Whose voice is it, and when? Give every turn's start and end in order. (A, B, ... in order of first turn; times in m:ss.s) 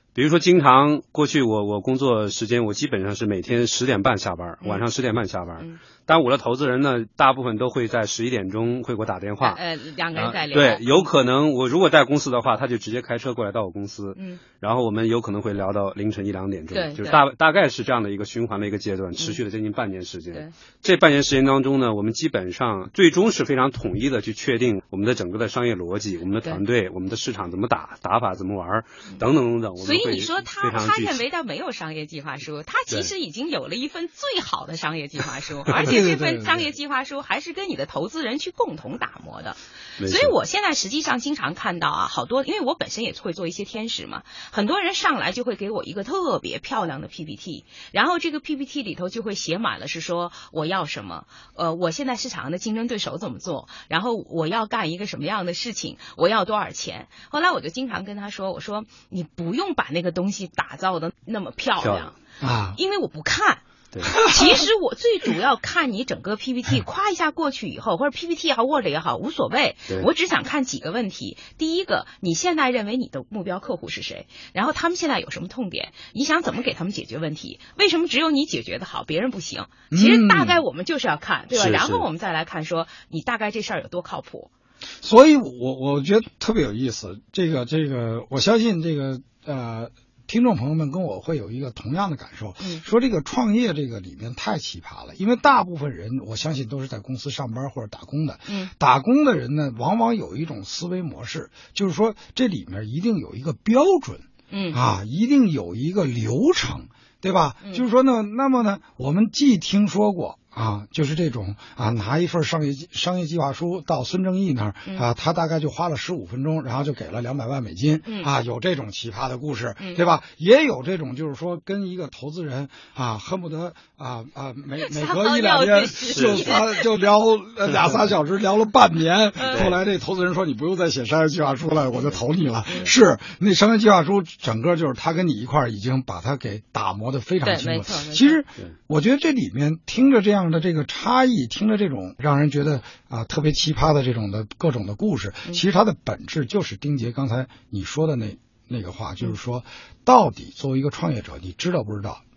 0:00.1-0:09.6 A
0:09.4-0:11.1 B
0:10.1-0:31.2 A
0:14.2-0:14.4 B
0:16.7-0:17.2 B
0:29.8-1:02.2 B
0:35.7-0:36.5 C
0:40.0-0:40.4 A
1:01.8-1:02.1 A
1:02.4-1:02.8 C
1:02.7-1:24.5 B
1:19.9-1:20.6 C
1:21.5-1:22.1 A
1:25.0-2:32.2 C
1:32.6-1:32.8 B
1:44.5-1:44.8 B
1:58.0-1:58.3 B
2:04.8-2:06.8 B
2:06.1-2:06.6 A
2:07.6-2:08.1 A
2:09.4-2:09.8 B
2:09.5-2:09.8 A
2:17.4-2:18.4 B